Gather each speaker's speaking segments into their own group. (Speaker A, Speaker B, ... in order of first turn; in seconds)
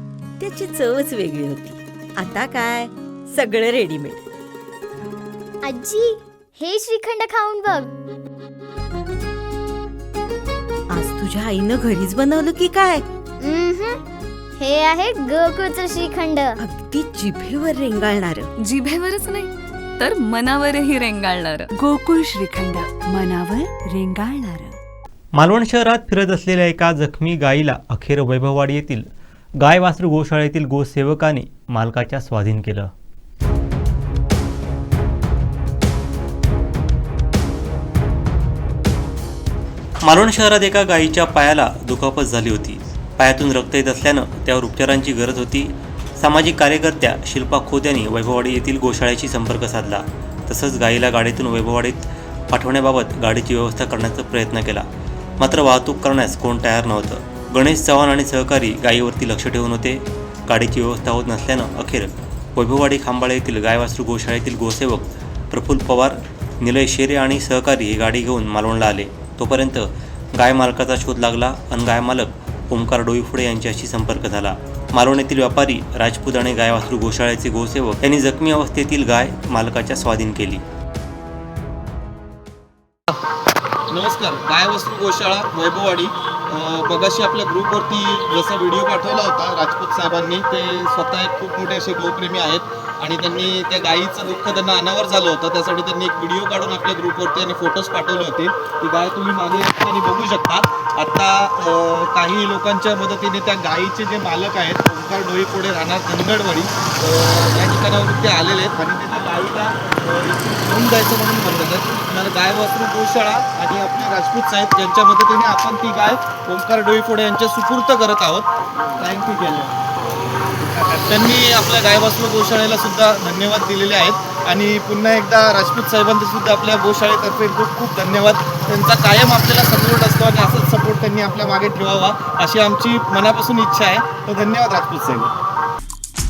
Speaker A: 0.4-4.2, 10.9-13.0, 16.6-18.5
Speaker B: 5.6-7.9, 13.4-14.0, 14.6-16.6
Speaker C: 18.6-21.7
Speaker D: 21.8-24.8
Speaker E: 25.4-29.1, 29.6-32.9, 40.0-54.9, 55.4-80.6
Speaker F: 83.9-118.5, 119.0-119.8, 120.7-135.3